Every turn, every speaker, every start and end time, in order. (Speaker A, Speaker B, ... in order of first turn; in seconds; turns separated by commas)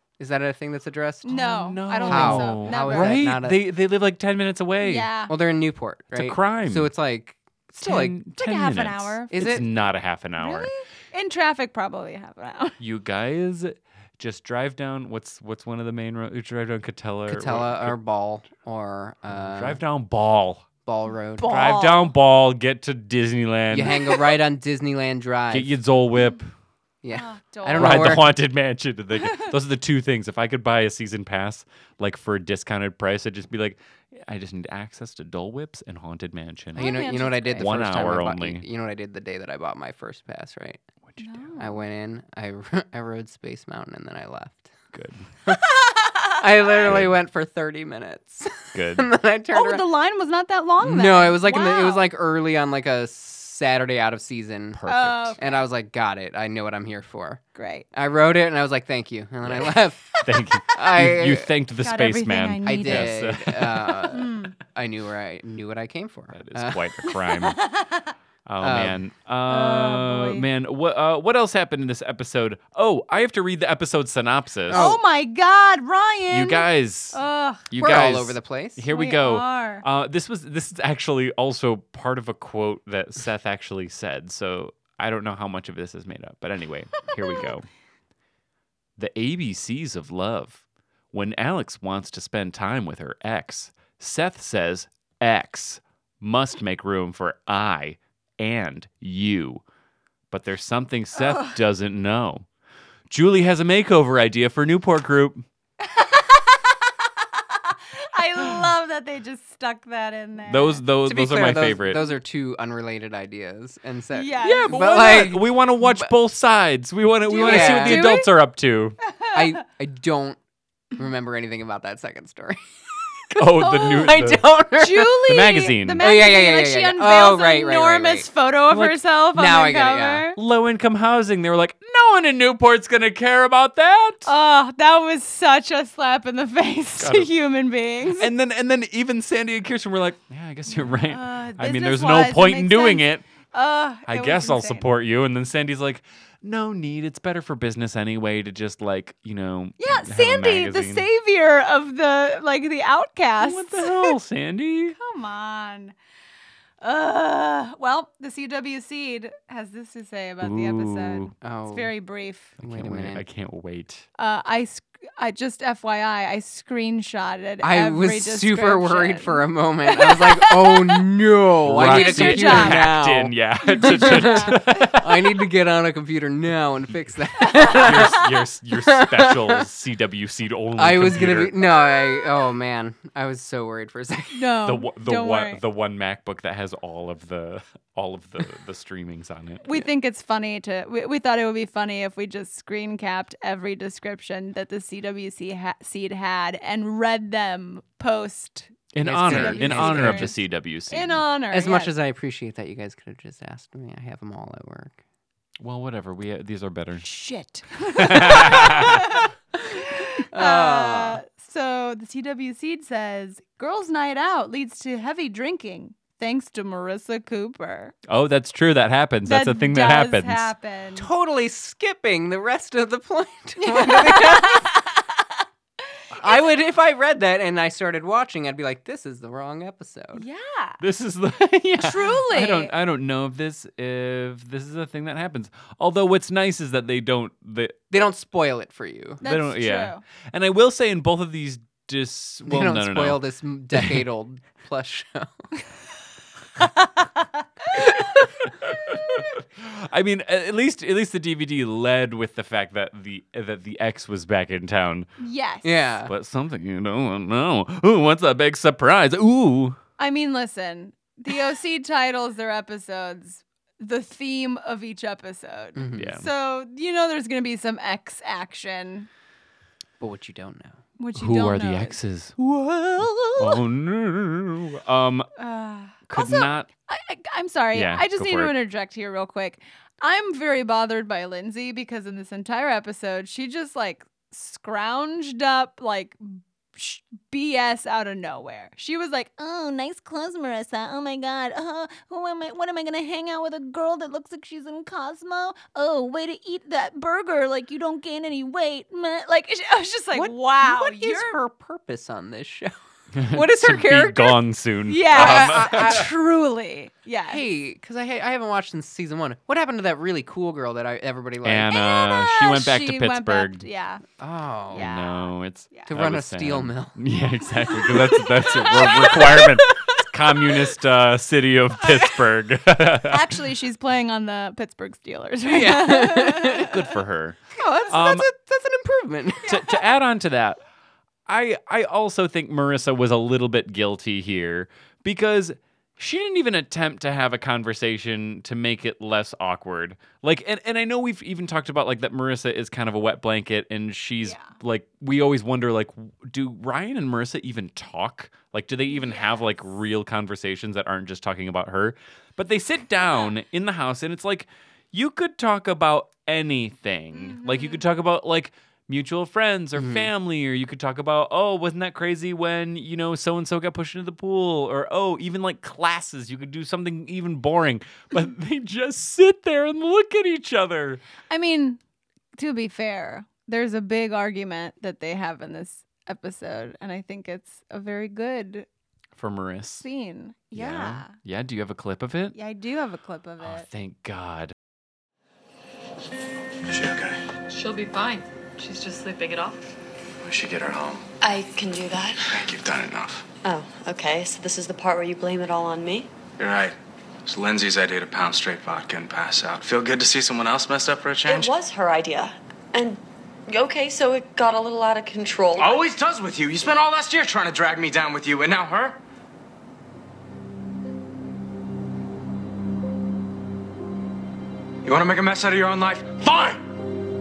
Speaker A: 0.2-1.4, Speaker B: 1.2-3.2, Speaker C: 1.3-5.1, Speaker A: 2.0-3.6, Speaker B: 4.8-5.3, Speaker A: 5.3-8.2, Speaker C: 6.1-6.9, Speaker C: 7.8-10.7, Speaker B: 8.2-9.7, Speaker A: 9.3-9.6, Speaker B: 10.4-12.8, Speaker C: 12.8-17.9, Speaker A: 17.3-19.8, Speaker C: 19.3-20.6, Speaker A: 20.8-21.4, Speaker B: 21.4-22.1, Speaker C: 21.4-24.2, Speaker A: 23.7-25.7, Speaker C: 25.5-26.5, Speaker A: 27.0-28.3, Speaker B: 27.1-28.2, Speaker C: 27.7-38.6, Speaker B: 29.2-29.5, Speaker A: 36.7-40.8, Speaker B: 36.8-37.6, Speaker C: 41.1-41.5, Speaker B: 41.2-41.8, Speaker A: 41.6-44.7, Speaker C: 44.9-45.3, Speaker B: 45.8-47.0, Speaker A: 46.3-49.8, Speaker C: 46.8-47.1, Speaker C: 48.7-49.1, Speaker B: 49.5-52.1, Speaker A: 50.8-54.8, Speaker C: 54.7-55.4, Speaker B: 54.9-55.6, Speaker A: 55.4-57.4, Speaker B: 57.5-57.9, Speaker A: 57.9-60.0, Speaker C: 59.4-64.2, Speaker A: 60.7-61.5, Speaker B: 61.8-63.2, Speaker A: 62.6-66.8, Speaker B: 64.1-64.5, Speaker C: 66.3-67.6, Speaker B: 67.0-68.1, Speaker C: 68.5-74.9, Speaker A: 68.6-69.0, Speaker B: 69.5-70.4, Speaker B: 74.7-77.7, Speaker A: 74.7-75.0, Speaker C: 76.3-87.7, Speaker A: 77.8-78.8, Speaker B: 78.9-79.8, Speaker C: 89.0-99.6, Speaker C: 100.3-102.5, Speaker B: 101.2-101.5, Speaker C: 103.1-105.5, Speaker B: 105.8-110.8, Speaker C: 110.5-112.0, Speaker A: 111.0-116.1, Speaker B: 114.1-114.7, Speaker C: 114.4-119.0, Speaker B: 117.3-118.3, Speaker A: 117.4-118.1, Speaker A: 119.3-120.4, Speaker A: 121.0-122.6, Speaker A: 123.3-125.1, Speaker C: 123.3-124.4, Speaker B: 123.6-124.1, Speaker B: 124.8-130.4, Speaker C: 125.2-126.1, Speaker A: 126.0-128.3, Speaker C: 128.7-129.0, Speaker A: 129.3-130.2, Speaker C: 130.3-134.3, Speaker B: 134.2-138.3, Speaker C: 137.0-137.3, Speaker C: 138.2-143.3, Speaker B: 140.8-144.8, Speaker C: 144.1-151.1, Speaker B: 149.8-154.2, Speaker C: 153.4-155.0, Speaker B: 154.9-155.9, Speaker B: 156.8-162.5, Speaker C: 160.4-161.3, Speaker A: 161.4-161.9, Speaker A: 162.6-163.2, Speaker C: 162.6-164.1, Speaker B: 164.2-171.0, Speaker A: 167.6-178.2, Speaker C: 171.6-175.3, Speaker B: 171.8-173.0, Speaker B: 173.7-174.5, Speaker C: 177.4-181.5, Speaker A: 178.8-179.6, Speaker A: 180.8-184.5, Speaker B: 181.9-182.3, Speaker B: 184.3-185.6, Speaker C: 184.6-189.9, Speaker B: 189.6-198.7, Speaker C: 198.9-201.2, Speaker A: 199.0-200.3, Speaker B: 199.2-200.3, Speaker B: 200.9-201.9, Speaker A: 201.5-204.9, Speaker C: 205.6-207.1, Speaker B: 207.0-217.9, Speaker C: 208.0-209.2, Speaker A: 210.3-211.2, Speaker C: 218.1-220.5, Speaker B: 219.2-221.1, Speaker A: 220.9-224.8, Speaker B: 223.6-225.0, Speaker A: 226.2-230.2, Speaker B: 230.1-230.8, Speaker C: 230.8-238.1, Speaker B: 231.8-232.7, Speaker A: 237.9-239.2, Speaker B: 239.2-240.0, Speaker C: 239.2-244.0, Speaker A: 242.4-245.5, Speaker C: 248.6-255.1, Speaker B: 255.2-255.9, Speaker A: 255.6-256.1, Speaker C: 256.1-259.8, Speaker B: 260.0-269.1, Speaker A: 265.8-266.1, Speaker C: 265.9-266.3, Speaker A: 270.0-270.8, Speaker B: 271.0-272.0, Speaker C: 271.1-275.3, Speaker B: 273.2-273.6, Speaker B: 275.4-301.3, Speaker C: 276.1-276.7, Speaker C: 277.7-278.5, Speaker A: 300.1-302.7, Speaker C: 303.1-306.0, Speaker A: 303.3-304.3, Speaker B: 304.9-307.4, Speaker A: 305.1-306.1, Speaker A: 307.3-311.7, Speaker C: 311.4-313.6, Speaker B: 311.7-314.0, Speaker A: 314.2-314.9, Speaker B: 314.7-315.9, Speaker C: 314.7-323.2, Speaker A: 315.9-317.0, Speaker B: 317.7-319.4, Speaker A: 318.8-319.4, Speaker B: 321.9-322.1, Speaker B: 322.9-326.7, Speaker A: 325.5-326.6, Speaker C: 326.5-328.3, Speaker A: 327.5-329.5, Speaker B: 329.4-329.7, Speaker C: 329.4-330.6, Speaker C: 331.3-371.0, Speaker B: 344.2-344.5, Speaker B: 348.9-349.4, Speaker B: 357.1-357.8, Speaker A: 359.8-360.1, Speaker B: 371.3-371.8, Speaker B: 372.4-378.6, Speaker C: 379.1-379.9, Speaker B: 379.8-381.1, Speaker C: 380.5-382.4, Speaker B: 382.3-383.7, Speaker C: 383.4-384.5, Speaker D: 386.6-387.2, Speaker E: 387.5-389.6, Speaker D: 390.2-391.0, Speaker F: 391.2-392.3, Speaker D: 392.3-393.2, Speaker F: 393.4-396.1, Speaker D: 396.4-401.5, Speaker F: 401.2-405.8, Speaker D: 405.6-409.0, Speaker D: 414.8-416.6